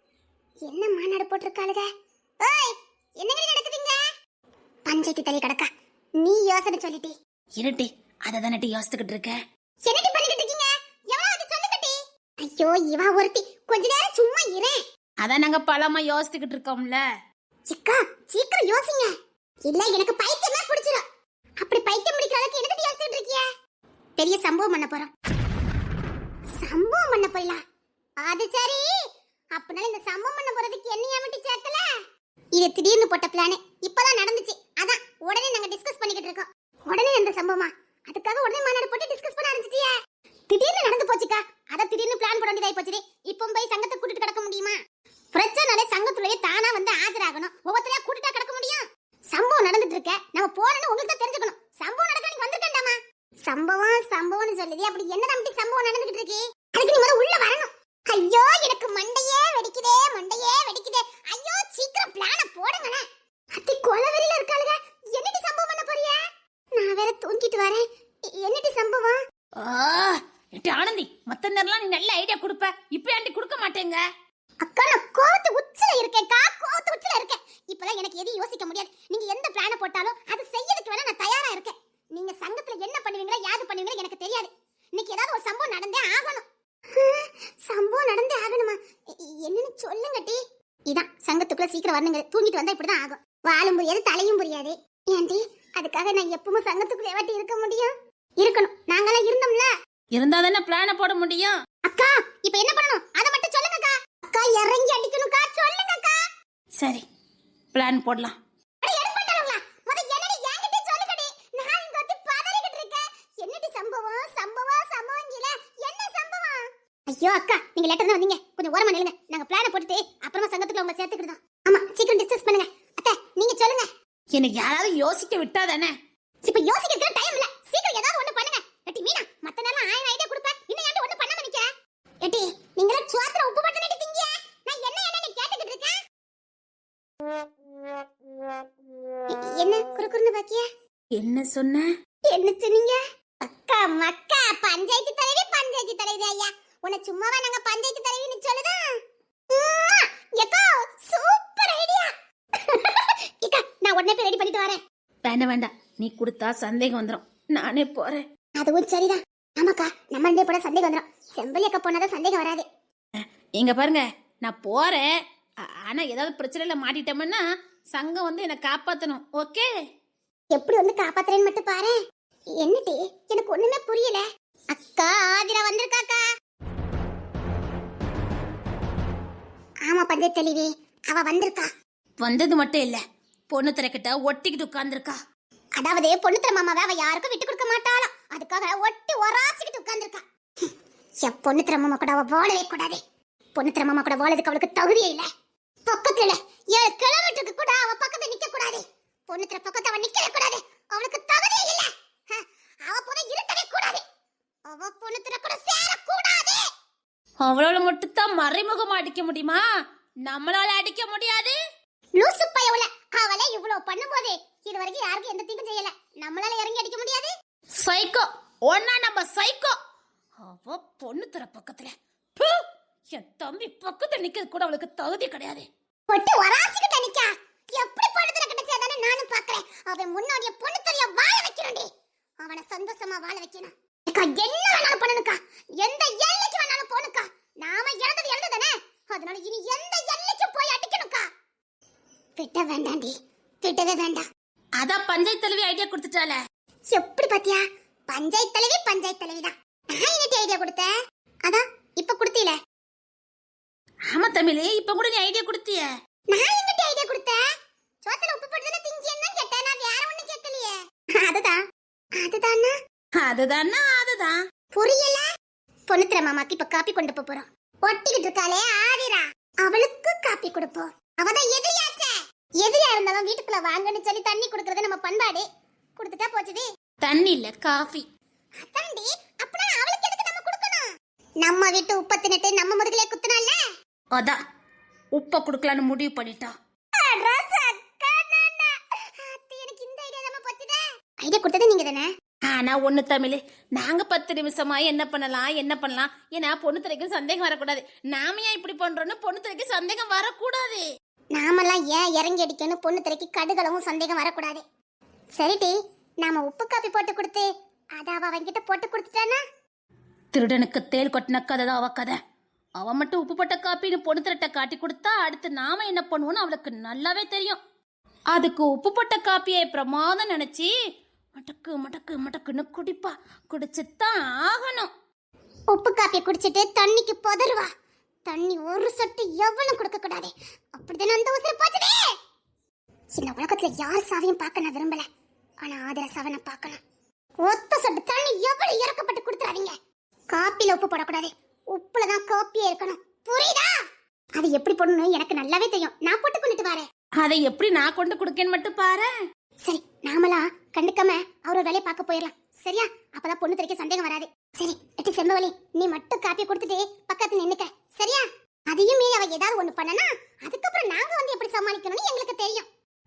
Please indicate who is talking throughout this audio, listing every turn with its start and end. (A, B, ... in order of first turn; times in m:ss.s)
0:00.7-0:01.9 A
0:02.4-0:04.0 A
0:04.9-0:07.1 A
0:07.6-0:09.4 B
0:09.8-0:14.8 A
0:15.2-0:17.0 B
0:17.7-0:19.1 A
0:19.7-0:21.0 A
0:21.6-0:23.5 A
0:24.2-0:25.1 A
0:26.6-0:27.6 A
0:28.2-0:28.9 A
0:29.6-0:31.9 A
0:32.6-0:40.0 A
0:40.5-0:44.8 A
0:45.3-1:06.2 A
1:06.8-1:09.2 A
1:09.6-1:14.0 B
1:14.6-1:30.4 A
1:30.9-1:39.7 A
1:40.2-1:41.6 B
1:41.8-1:46.2 A
1:47.7-1:48.4 B
1:48.8-2:03.9 A
2:04.4-2:06.0 B
2:06.4-2:11.7 A
2:12.2-2:16.0 A
2:19.3-2:20.7 A
2:21.2-2:21.9 B
2:22.3-2:28.8 A
2:29.5-2:34.8 A
2:35.3-2:38.2 B
2:38.6-2:42.6 A
2:43.6-2:45.1 B
2:45.6-2:47.4 B
2:47.9-2:49.7 B
2:50.5-2:52.0 A
2:52.6-2:56.2 A
2:59.9-3:01.7 A
3:02.2-3:05.2 B
3:05.8-3:13.0 A
3:13.6-3:15.3 A
3:15.8-3:24.0 A
3:24.7-3:26.6 A
3:27.4-3:29.6 B
3:30.3-3:31.6 B
3:32.2-3:37.3 A
3:37.8-3:39.8 B
3:40.4-3:45.6 B
3:46.1-3:51.9 A
3:52.4-4:01.2 A
4:02.4-4:04.2 A
4:04.8-4:06.4 B
4:06.9-4:10.9 A
4:11.5-4:12.6 A
4:14.1-4:15.9 B
4:16.3-4:17.4 A
4:18.0-4:21.6 A
4:22.2-4:22.7 A
4:23.2-4:24.4 B
4:24.7-4:25.3 A
4:25.9-4:35.4 A
4:36.0-4:36.7 A
4:37.0-4:38.1 B
4:38.6-4:40.9 A
4:41.4-4:43.6 A
4:45.2-4:46.6 B
4:47.0-4:52.1 A
4:52.5-5:00.8 B
5:01.3-5:04.6 A
5:05.4-5:09.4 A
5:10.3-5:12.2 B
5:12.8-5:17.6 B
5:18.3-5:20.7 B
5:21.4-5:24.9 B
5:25.7-5:27.7 A
5:28.3-5:32.1 A
5:33.2-5:35.1 A
5:35.6-5:36.8 A
5:37.4-5:39.8 A
5:40.3-5:43.7 A
5:44.4-5:46.9 A
5:47.2-5:49.1 B
5:49.6-6:02.7 A